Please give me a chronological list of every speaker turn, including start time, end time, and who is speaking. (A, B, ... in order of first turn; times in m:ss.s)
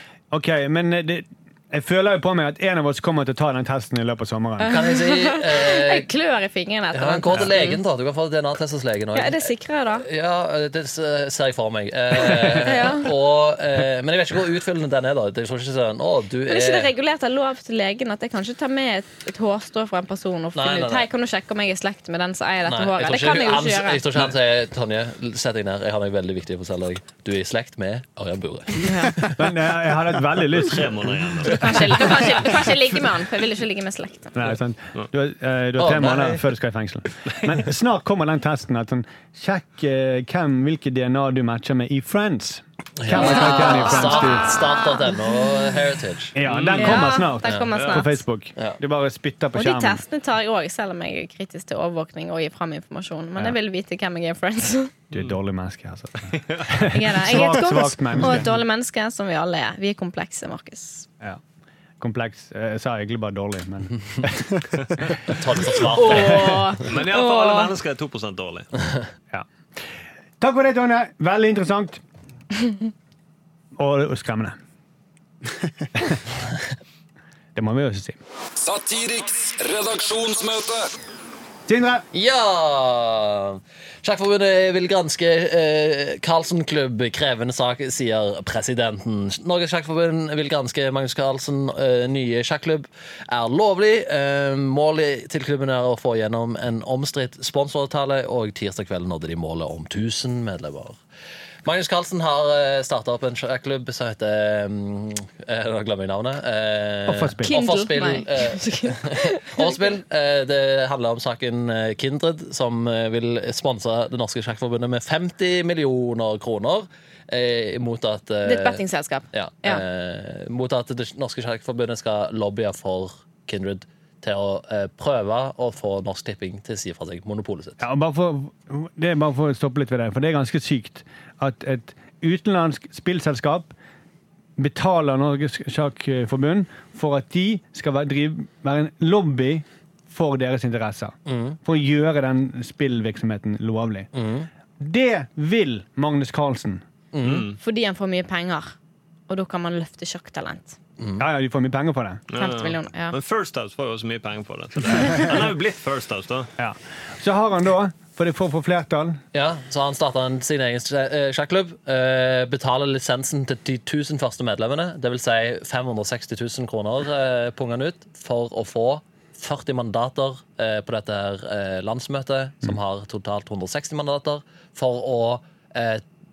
0:00.3-0:04.7 A
0:04.6-0:07.8 B
0:04.6-0:06.1 C
0:06.9-0:16.9 C
0:09.1-0:10.1 B
0:12.2-0:13.1 B
0:16.5-0:24.0 B
0:20.5-0:21.1 C
0:22.6-0:29.4 C
0:28.8-0:29.1 B
0:29.3-0:32.2 A
0:30.5-0:32.1 D
0:31.5-0:34.3 B
0:34.3-0:44.6 A
0:35.8-0:36.4 C
0:43.0-0:46.4 C
0:43.1-0:45.2 B
0:46.3-0:50.0 A
0:46.4-0:48.0 D
0:46.8-0:48.2 B
0:47.4-0:47.7 C
0:49.5-0:54.9 B
0:55.1-0:58.5 A
0:56.3-0:56.6 D
0:56.9-1:01.0 B
1:02.0-1:04.7 A
1:05.3-1:06.6 C
1:05.9-1:07.7 B
1:06.1-1:06.6 A
1:06.9-1:08.7 D
1:10.4-1:12.0 A
1:13.8-1:14.6 A
1:17.5-1:18.2 A
1:18.6-1:20.9 E
1:21.7-1:22.0 A
1:22.1-1:41.0 C
1:41.6-2:07.8 C
1:47.1-1:47.5 A
1:47.4-1:49.8 B
1:58.4-1:59.8 B
2:07.8-2:13.7 A
2:14.6-2:24.1 A
2:21.2-2:21.6 C
2:24.1-2:24.5 C
2:24.8-2:26.8 A
2:27.1-2:27.5 C
2:27.2-2:27.6 D
2:27.6-2:28.7 B
2:29.3-2:30.8 B
2:31.0-2:31.2 C
2:31.2-2:32.2 A
2:32.3-2:36.5 D
2:32.3-2:33.2 B
2:36.6-2:39.2 A
2:39.3-2:56.0 C